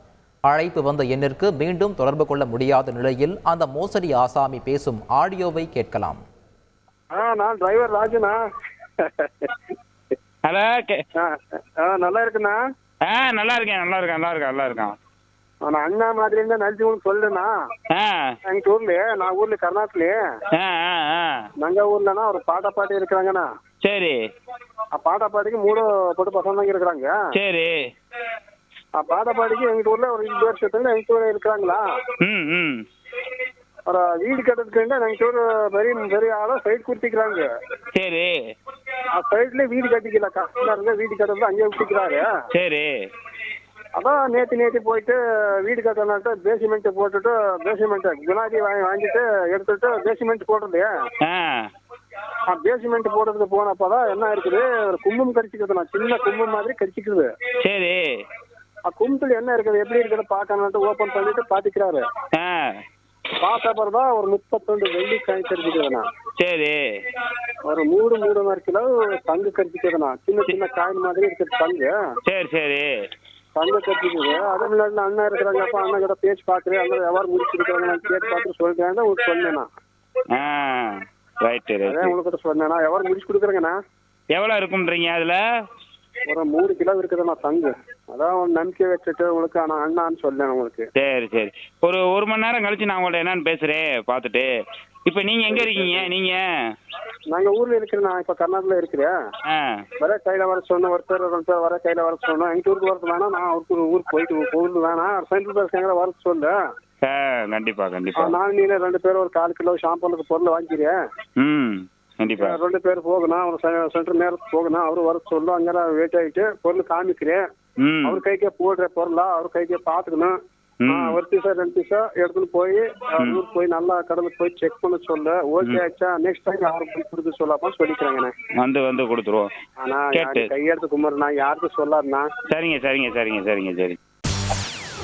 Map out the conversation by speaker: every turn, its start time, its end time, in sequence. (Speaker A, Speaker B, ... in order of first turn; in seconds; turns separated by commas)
Speaker A: 0.5-6.2, Speaker B: 7.1-8.4, Speaker B: 9.0-9.5, Speaker C: 10.4-11.0, Speaker B: 11.2-12.6, Speaker C: 13.1-14.9, Speaker B: 15.6-17.5, Speaker C: 17.9-18.3, Speaker B: 18.4-20.2, Speaker C: 20.5-21.4, Speaker B: 21.6-23.5, Speaker C: 23.8-24.2, Speaker B: 24.9-27.1, Speaker C: 27.3-27.8, Speaker B: 29.0-31.8, Speaker C: 32.2-32.8, Speaker B: 33.9-37.5, Speaker C: 37.9-38.3, Speaker B: 39.2-42.3, Speaker C: 42.5-43.0, Speaker B: 44.0-50.9, Speaker C: 51.2-51.7, Speaker B: 52.5-57.3, Speaker C: 57.6-58.2, Speaker B: 58.9-62.0, Speaker C: 62.3-62.8, Speaker B: 63.4-66.0, Speaker C: 66.4-66.8, Speaker B: 67.6-71.9, Speaker C: 72.2-72.9, Speaker B: 73.5-79.7, Speaker C: 80.3-82.2, Speaker B: 81.8-83.7, Speaker C: 84.3-85.4, Speaker B: 86.3-90.9, Speaker C: 91.0-94.5, Speaker C: 95.1-96.4, Speaker B: 95.5-96.1, Speaker B: 97.3-99.1, Speaker C: 99.5-99.8, Speaker B: 100.0-106.5, Speaker C: 107.0-108.4, Speaker B: 108.2-111.0, Speaker C: 111.4-112.6, Speaker B: 112.4-117.4, Speaker C: 117.8-118.2, Speaker B: 118.0-120.3, Speaker C: 120.8-121.2, Speaker B: 120.9-128.3, Speaker C: 123.2-123.4, Speaker C: 128.6-129.5, Speaker B: 129.8-132.3, Speaker C: 130.1-130.5, Speaker C: 132.5-134.0